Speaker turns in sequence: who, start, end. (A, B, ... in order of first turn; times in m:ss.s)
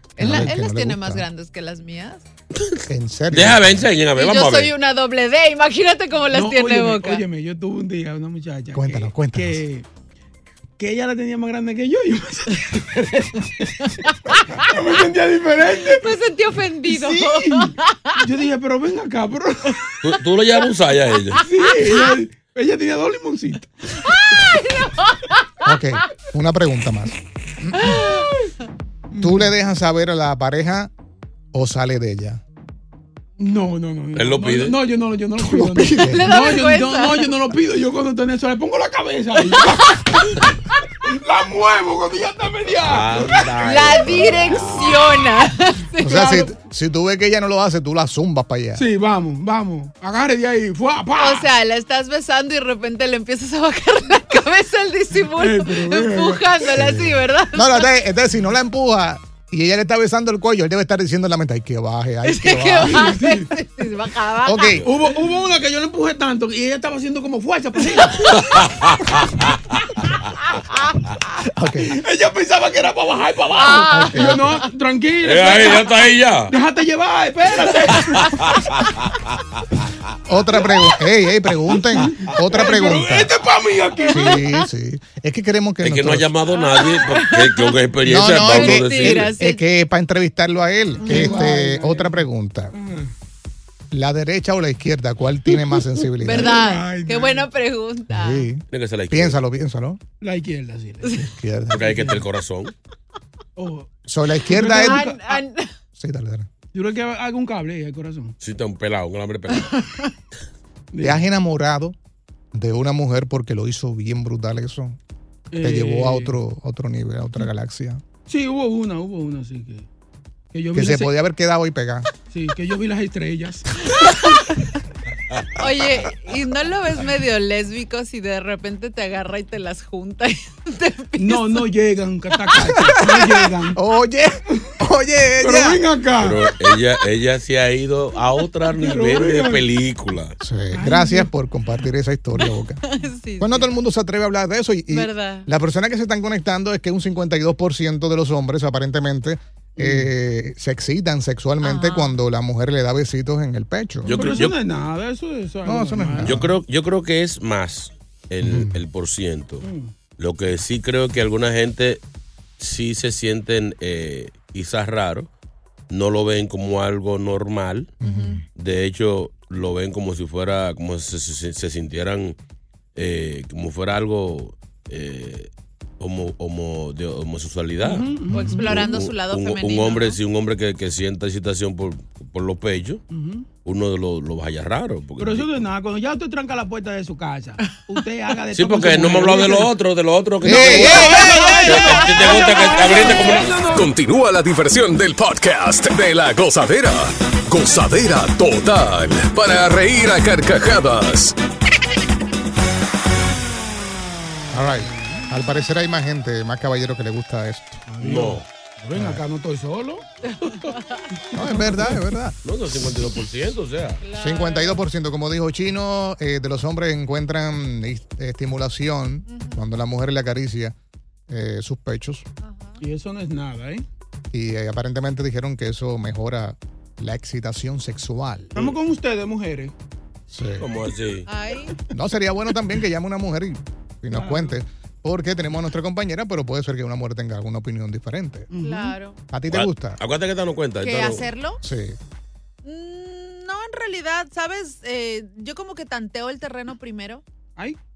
0:00.2-0:02.2 A
0:00.2-0:01.2 B
0:02.5-0:04.7 C
0:02.9-0:03.9 B
0:04.1-0:07.2 A
0:06.3-0:09.8 D
0:08.7-0:09.6 B
0:10.8-0:13.7 D
0:14.1-0:14.6 A
0:14.7-0:16.1 D
0:15.9-0:18.2 A
0:16.8-0:19.8 D
0:20.0-0:21.4 C
0:21.4-0:22.2 A
0:21.4-0:23.7 D
0:24.1-0:25.4 A
0:25.6-0:27.1 B
0:27.6-0:28.0 B
0:27.8-0:28.2 A
0:29.1-0:29.4 D
0:29.2-0:30.9 B
0:31.5-0:32.4 B
0:33.4-0:40.0 D
0:34.2-0:34.8 C
0:35.5-0:36.4 B
0:36.0-0:37.4 A
0:39.6-0:40.0 A
0:41.0-0:43.7 D
0:42.8-0:44.9 C
0:43.6-0:46.5 A
0:46.0-0:48.8 B
0:48.8-0:51.4 D
0:51.2-0:57.9 A
0:55.3-0:56.4 D
0:56.7-1:03.2 B
1:02.2-1:04.8 A
1:02.9-1:03.5 D
1:04.4-1:04.8 B
1:04.8-1:08.4 D
1:11.5-1:11.9 B
1:11.8-1:15.9 D
1:13.5-1:14.6 A
1:13.9-1:14.6 B
1:15.2-1:16.5 C
1:16.5-1:18.5 D
1:20.3-1:23.3 B
1:21.7-1:24.4 D
1:24.0-1:24.6 A
1:24.0-1:26.3 B
1:25.8-1:29.3 C
1:26.5-1:27.8 A
1:28.0-1:32.7 B
1:28.3-1:29.6 A
1:31.0-1:32.2 D
1:31.1-1:31.4 A
1:32.7-1:33.1 D
1:33.9-1:36.6 B
1:36.2-1:38.5 A
1:36.3-1:37.5 D
1:38.1-1:40.0 B
1:38.7-1:39.4 C
1:40.2-1:41.2 D
1:41.1-1:42.1 B
1:41.7-1:42.7 C
1:41.8-1:42.2 D
1:43.6-1:43.9 D
1:44.0-1:45.1 B
1:44.5-1:45.4 D
1:44.6-1:45.7 A
1:46.0-1:46.5 B
1:46.7-1:48.3 D
1:48.4-1:49.7 C
1:49.5-1:50.1 A
1:50.9-1:51.2 D
1:51.0-1:51.9 B
1:52.5-1:55.0 B
1:55.5-1:56.4 D
1:55.6-1:58.0 B
1:58.2-1:59.9 D
2:00.5-2:01.1 D
2:00.7-2:02.1 B
2:02.3-2:03.7 D
2:05.6-2:11.6 A
2:11.2-2:13.8 D
2:12.7-2:15.8 B
2:15.4-2:16.6 D
2:16.2-2:20.4 C
2:18.7-2:19.6 D
2:20.4-2:22.8 B
2:20.7-2:21.3 D
2:22.8-2:23.7 A
2:23.4-2:34.3 B
2:24.9-2:25.5 A
2:29.8-2:30.1 D
2:31.6-2:32.1 A
2:34.0-2:34.6 C
2:34.1-2:36.5 D
2:35.6-2:36.5 B
2:36.2-2:42.0 C
2:38.4-2:38.8 B
2:39.6-2:39.9 D
2:42.6-2:45.3 C
2:45.9-2:47.9 C
2:48.0-2:48.4 B
2:48.0-2:48.4 A
2:48.6-2:52.4 C
2:53.0-3:03.0 C
2:57.8-2:58.8 D
2:58.3-2:58.7 B
2:58.3-3:00.2 A
3:03.1-3:03.4 D
3:03.6-3:05.6 C
3:05.2-3:09.7 D
3:08.5-3:13.6 C
3:10.4-3:11.6 B
3:10.5-3:13.8 D
3:11.1-3:13.4 A
3:13.6-3:21.3 E
3:24.5-3:27.8 B
3:24.9-3:25.3 D
3:27.9-3:30.0 D
3:28.0-3:28.4 C
3:29.0-3:29.2 B
3:30.3-3:31.0 A
3:31.3-3:33.0 B
3:31.6-3:31.9 D
3:32.4-3:34.0 C
3:34.0-3:34.8 A
3:34.1-3:40.7 B
3:39.3-3:39.6 A
3:41.3-3:42.2 B
3:42.4-3:42.8 A
3:42.8-3:43.8 D
3:44.3-3:48.6 B
3:48.5-3:49.7 D
3:50.3-3:50.7 B
3:50.6-3:51.3 C
3:51.3-3:51.7 A
3:51.9-3:58.5 B
3:54.1-3:54.5 D
3:58.5-3:59.0 D
3:58.5-3:59.2 A
3:59.3-4:00.0 B
3:59.5-4:01.3 C
4:00.8-4:01.6 A
4:01.6-4:02.0 B
4:02.6-4:07.2 A